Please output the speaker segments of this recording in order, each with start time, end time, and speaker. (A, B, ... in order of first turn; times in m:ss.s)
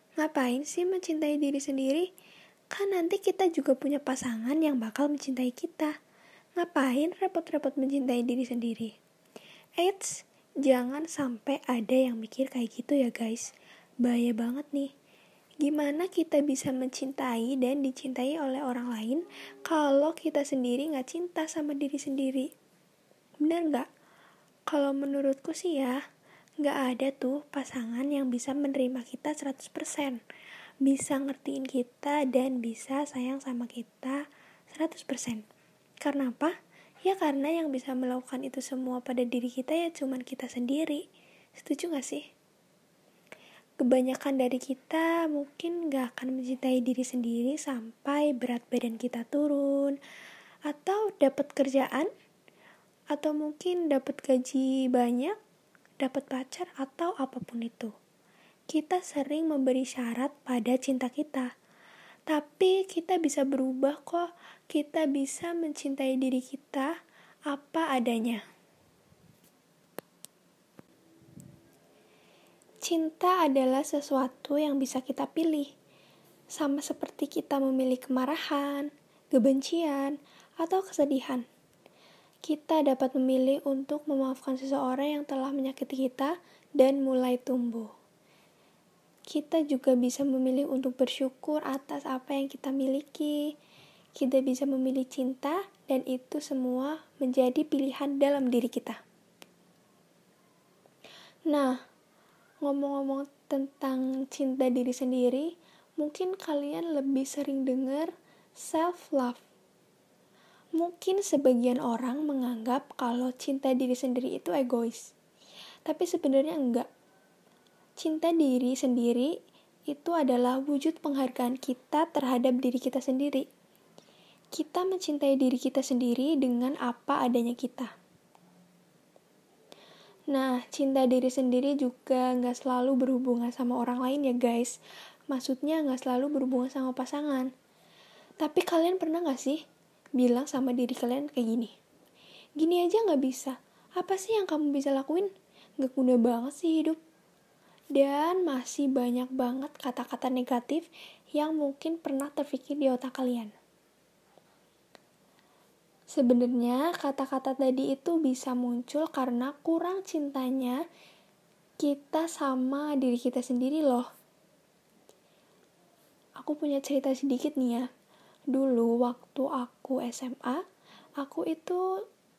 0:00.2-0:02.1 A
0:02.7-0:05.9 A
0:06.6-0:08.9 A
0:09.8-0:13.5 A
0:14.0-0:14.9 A
0:15.6-0:22.5 A
0:23.4-0:23.9 A
0:24.7-0:26.0 A
0:26.6-0:30.2 A
0:30.8-0:34.2 A
0:34.7-0:35.4 A
0:36.0-0:36.5 A
0:37.0-0:41.0 A
0:41.6-0:42.2 A
0:43.8-0:50.0 A
0:50.7-0:52.1 A
0:53.1-0:55.3 A
0:56.0-0:57.9 A
0:58.7-1:01.5 A
1:02.3-1:06.9 A
1:07.5-1:08.4 A
1:12.8-1:15.7 A
1:16.5-1:21.4 A
1:22.4-1:27.9 A
1:29.3-1:33.4 A
1:34.2-1:39.0 A
1:41.5-1:41.7 A
1:42.6-1:48.1 A
1:48.6-1:49.4 A
1:50.8-1:55.1 A
1:55.8-1:56.9 A
1:58.0-1:59.3 A
1:59.9-2:03.4 A
2:04.5-2:07.9 A
2:10.3-2:14.8 A
2:15.3-2:17.5 A
2:18.4-2:19.6 A
2:20.2-2:21.7 A
2:22.6-2:25.3 A
2:25.8-2:27.0 A
2:27.9-2:33.5 A
2:36.1-2:40.8 A
2:41.8-2:44.1 A
2:46.4-2:47.9 A
2:48.5-2:50.6 A
2:51.2-2:51.8 A